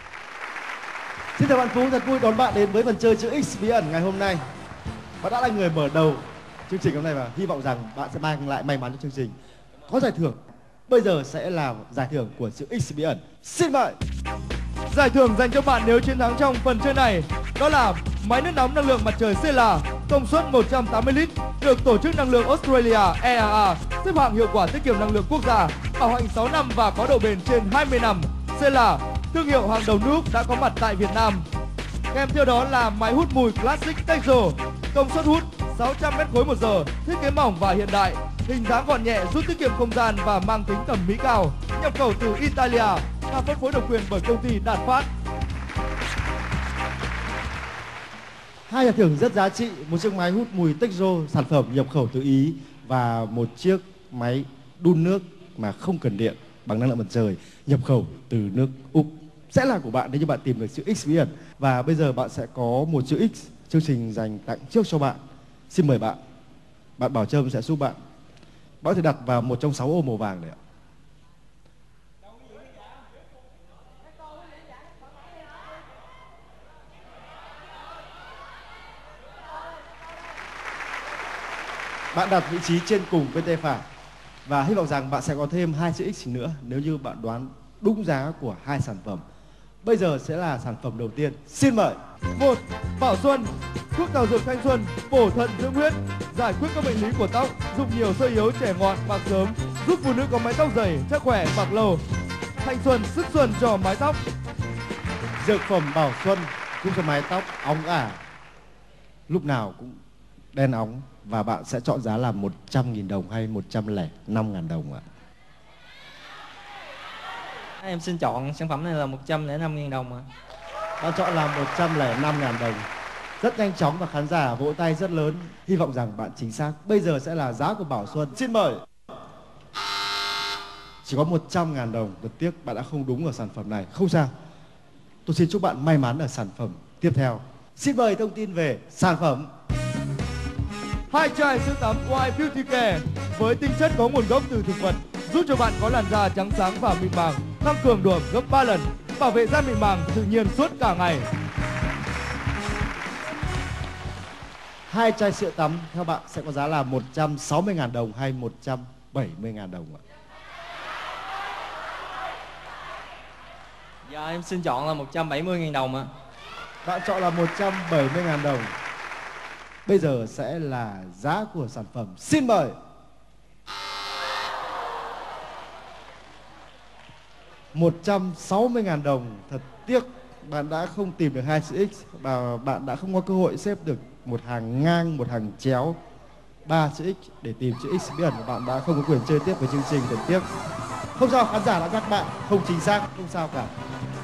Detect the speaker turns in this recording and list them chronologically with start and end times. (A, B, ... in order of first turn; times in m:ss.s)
0:01.4-0:04.4 A
0:05.2-0:09.3 A
0:09.9-0:14.0 A
0:14.9-0:31.4 B
0:32.1-0:45.1 B
0:48.7-1:06.2 A
1:07.0-1:08.0 A
1:08.8-1:10.6 A
1:22.1-1:23.8 A
1:24.4-1:29.2 A
1:29.8-1:32.0 A
1:32.4-1:42.0 B
1:42.6-1:44.2 B
1:45.4-1:48.2 A
1:49.3-1:50.0 A
1:50.5-1:55.0 A
1:57.8-2:00.3 C
2:01.0-2:02.8 A
2:03.4-2:08.8 A
2:11.0-2:14.3 A
2:15.2-2:19.5 A
2:21.1-2:31.2 B
2:34.9-2:40.0 A
2:44.1-2:46.1 C
2:46.8-2:48.7 A
2:49.8-2:52.7 A
2:57.7-3:06.0 A
3:06.6-3:10.4 A
3:11.2-3:13.7 A